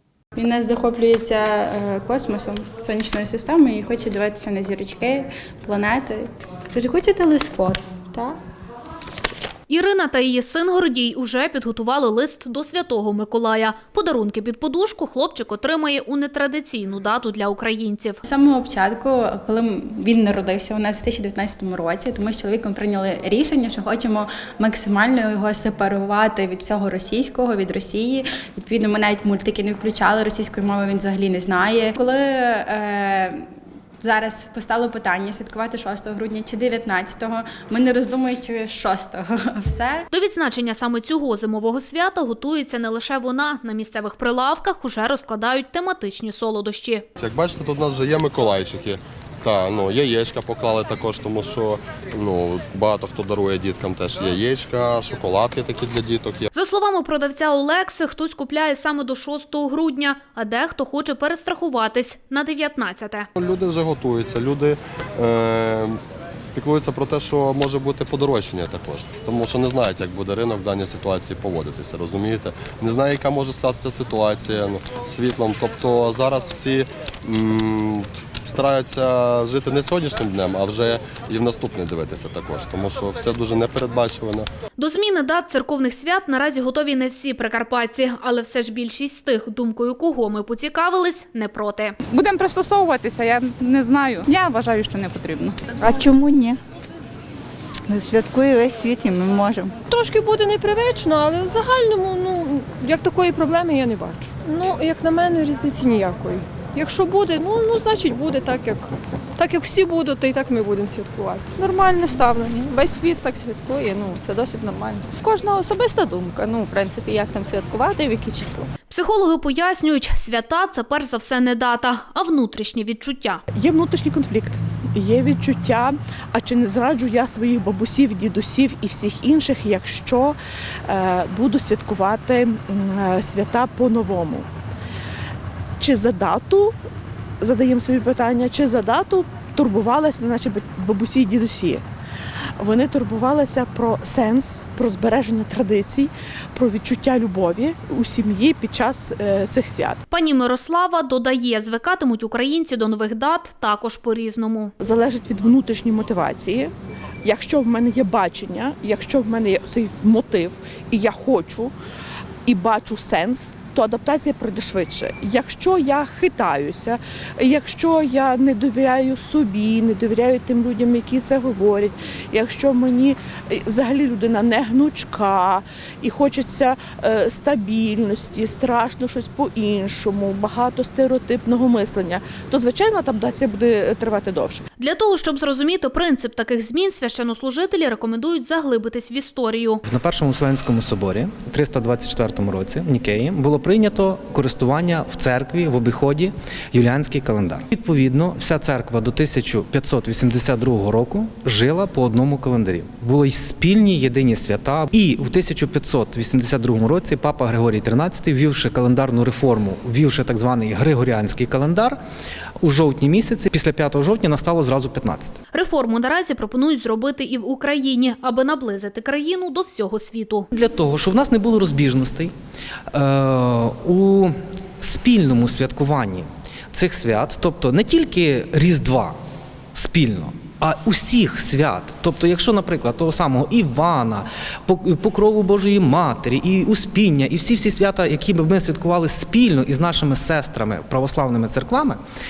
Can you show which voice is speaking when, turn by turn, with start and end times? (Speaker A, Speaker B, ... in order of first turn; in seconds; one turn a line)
Speaker A: 0.4-8.4
Speaker B: 9.7-18.2
Speaker A: 18.2-33.5
Speaker A: 34.0-40.1
Speaker B: 40.1-47.1
Speaker C: 47.2-56.5
Speaker B: 56.5-63.3
Speaker C: 63.4-66.0
Speaker C: 66.5-84.5
Speaker B: 84.8-91.9
Speaker D: 92.1-95.6
Speaker E: 95.8-96.6
Speaker E: 97.9-99.7
Speaker F: 99.9-111.5
Speaker G: 111.6-118.7
Speaker B: 118.9-123.4
Speaker H: 123.5-130.4
Speaker H: 130.9-134.5
Speaker H: 135.8-136.7
Speaker H: 137.4-141.8
Speaker H: 142.6-150.0
Speaker B: 150.1-154.7
Speaker H: 154.8-156.7
Speaker H: 157.2-161.7
Speaker H: 162.5-184.6
Speaker B: 184.8-189.8
Speaker I: 189.9-212.0
Speaker I: 212.6-215.4
Speaker B: 215.5-220.5
Speaker I: 220.5-222.3
Speaker I: 222.9-229.2
Speaker I: 229.7-242.0